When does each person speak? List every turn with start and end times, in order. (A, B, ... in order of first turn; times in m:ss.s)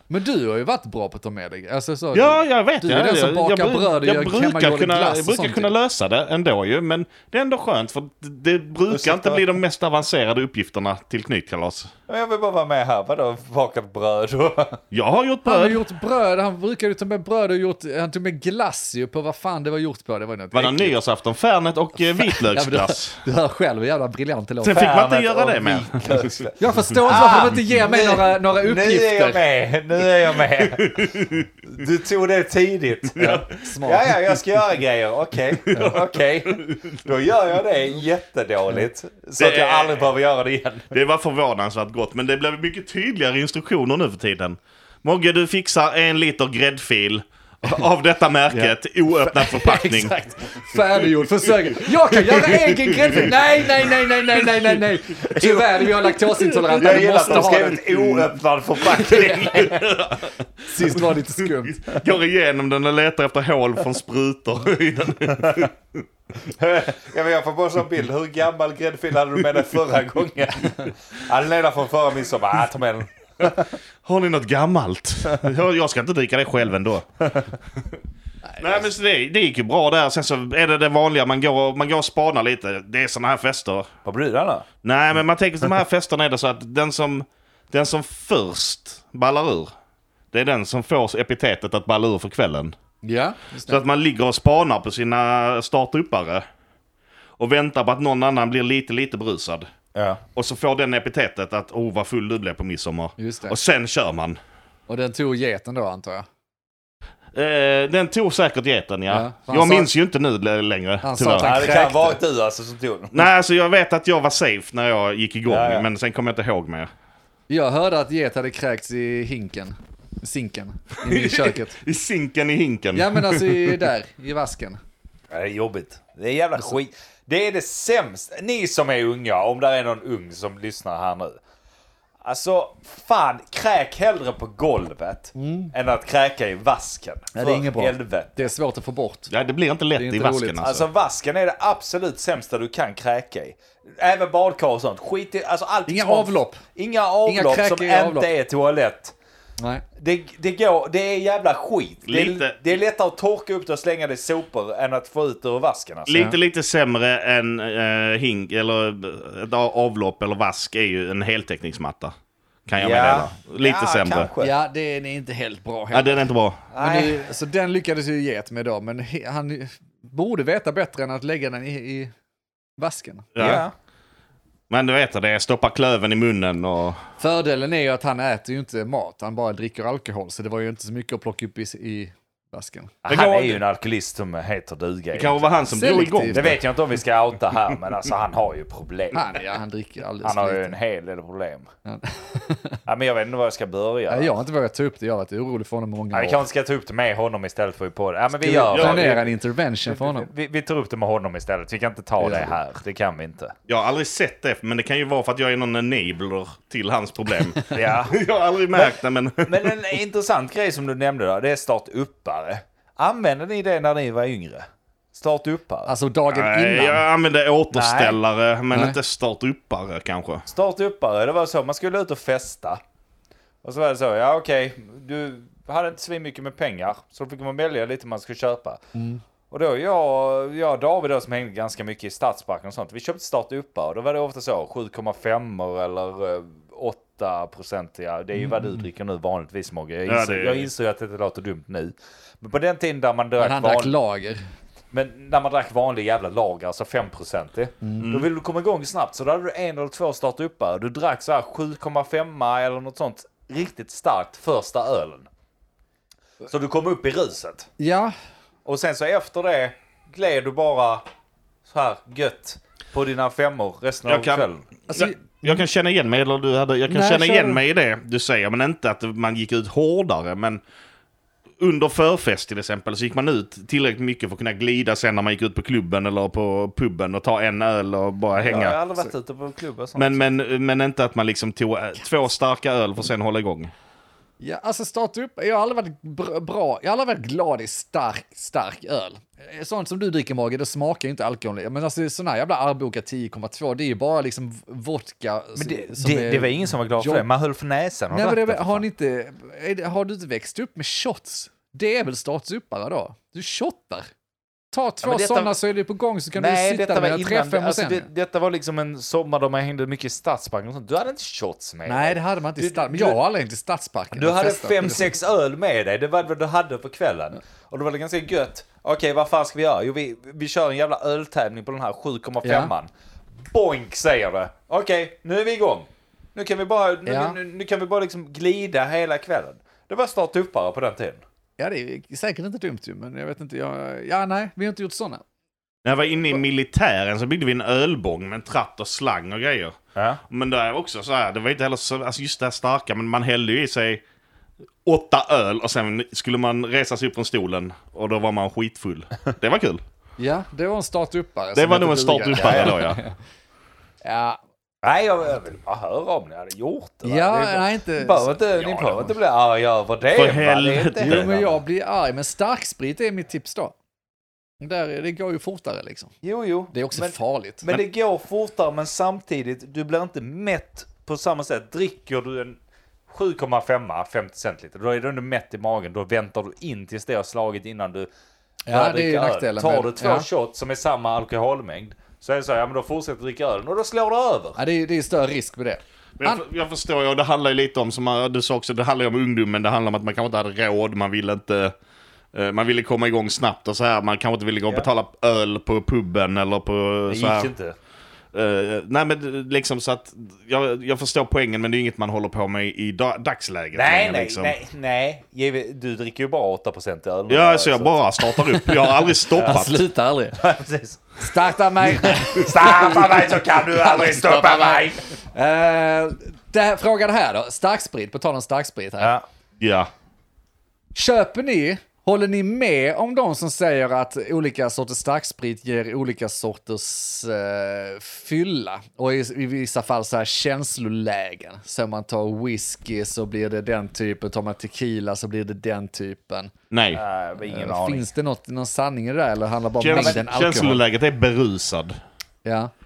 0:00.1-0:05.7 A
0:02.1-0:11.9 B
0:08.9-0:09.4 C
0:12.1-0:14.8 C
0:14.9-0:15.8 B
0:15.4-0:20.9 A
0:20.5-0:23.2 B
0:22.0-0:24.9 A
0:24.6-0:26.4 B
0:24.7-0:40.9 C
0:26.6-0:29.4 A
0:30.6-0:31.5 B
0:33.2-0:33.5 B
0:33.2-0:34.1 A
0:35.7-0:37.0 B
0:39.4-0:40.1 B
0:40.9-0:50.2 B
0:49.2-0:57.8 A
0:51.4-0:53.4 B
0:55.3-0:59.9 C
0:56.7-1:05.7 B
1:00.7-1:02.0 A
1:05.4-1:05.7 C
1:06.4-1:13.7 C
1:14.0-1:17.2 B
1:18.5-1:18.8 A
1:18.6-1:23.9 B
1:24.0-1:24.7 C
1:24.8-1:29.7 B
1:30.3-1:32.8 B
1:33.0-1:33.8 A
1:33.7-1:36.4 B
1:37.4-1:39.7 B
1:40.0-1:40.2 C
1:40.4-1:44.4 B
1:43.2-1:43.6 A
1:44.9-1:46.3 A
1:47.3-1:51.7 B
1:49.1-1:49.9 A
1:51.0-1:52.2 A
1:51.4-1:53.3 C
1:53.1-1:56.9 B
1:55.5-1:55.9 C
1:57.5-2:01.8 A
2:01.1-2:03.8 B
2:02.9-2:04.8 A
2:05.3-2:11.4 C
2:12.2-2:18.4 C
2:15.4-2:15.7 A
2:17.3-2:19.3 A
2:19.3-2:20.9 B
2:20.0-2:20.6 A
2:20.6-2:29.1 C
2:25.9-2:26.6 A
2:27.3-2:28.3 A
2:29.6-2:29.8 A
2:30.0-2:36.3 C
2:32.1-2:32.6 B
2:36.1-2:42.1 B
2:42.7-2:44.3 B
2:42.8-2:44.5 C
2:44.4-2:46.2 A
2:45.9-2:46.6 B
2:46.7-2:47.2 C
2:46.8-2:52.1 A
2:52.8-2:53.4 A
2:53.4-2:53.6 B
2:53.4-2:53.7 C
2:54.7-2:57.0 B
2:57.2-3:03.0 A
3:03.0-3:05.5 C
3:03.1-3:03.6 B
3:05.1-3:06.6 B
3:05.7-3:06.6 A
3:06.3-3:09.5 C
3:09.1-3:10.8 A
3:10.2-3:11.7 C
3:11.9-3:12.8 A
3:12.9-3:14.4 C
3:14.1-3:16.4 A
3:16.1-3:19.3 C
3:18.4-3:20.3 A
3:18.7-3:19.2 B
3:19.9-3:23.5 C
3:22.2-3:22.5 A
3:23.7-3:29.8 B
3:27.7-3:28.2 C
3:28.7-3:35.9 C
3:35.9-3:37.0 A
3:36.3-3:40.4 B
3:37.7-3:38.2 C
3:38.7-3:39.0 A
3:40.5-3:42.8 C
3:43.6-3:48.8 C
3:48.9-3:49.2 A
3:49.5-4:03.9 C
3:58.4-3:58.8 A
4:00.1-4:00.7 B
4:03.4-4:04.4 A
4:04.9-4:15.3 C
4:07.8-4:08.1 A
4:08.0-4:08.3 B
4:16.5-4:17.7 C
4:17.8-4:18.1 A
4:18.6-4:21.0 C
4:21.7-4:24.7 C
4:24.1-4:30.6 B
4:24.9-4:25.6 A
4:26.9-4:27.6 A
4:31.6-4:38.8 B
4:38.4-4:40.2 C
4:40.0-4:43.7 B
4:44.4-4:57.2 A
4:55.6-4:58.8 C
4:58.1-5:04.1 A
5:04.7-5:08.1 A
5:05.0-5:05.5 C
5:06.4-5:13.2 C
5:11.9-5:15.1 A
5:14.2-5:22.9 C
5:22.4-5:22.7 A
5:23.5-5:31.2 C
5:27.1-5:27.4 A
5:31.6-5:35.2 A
5:35.8-5:39.8 B
5:40.0-5:40.2 C
5:40.3-5:44.0 B
5:44.8-5:49.8 B
5:50.2-5:53.1 A
5:51.6-5:53.0 B
5:52.4-5:52.8 C
5:54.0-5:54.4 A
5:54.8-6:01.4 C
5:57.0-5:59.1 A
6:00.1-6:01.5 B
6:01.0-6:03.8 A
6:04.6-6:06.1 A
6:06.2-6:12.6 C
6:06.7-6:07.7 A
6:13.1-6:18.1 C
6:18.7-6:20.3 A
6:18.7-6:24.6 C
6:24.6-6:26.4 A
6:26.2-6:31.7 B
6:32.3-6:37.5 B
6:37.1-6:37.8 C
6:38.3-6:44.6 B
6:43.7-6:48.0 C
6:47.3-6:49.8 B
6:48.6-6:50.4 A
6:49.4-6:49.7 C
6:50.4-6:51.3 C
6:51.2-6:59.1 A
6:51.8-6:55.0 C
6:59.6-6:59.9 B
7:01.0-7:16.5 A
7:16.7-7:17.0 B
7:16.9-7:18.1 C
7:17.4-7:20.8 A
7:19.8-7:22.0 B
7:19.9-7:20.2 C
7:22.4-7:22.7 A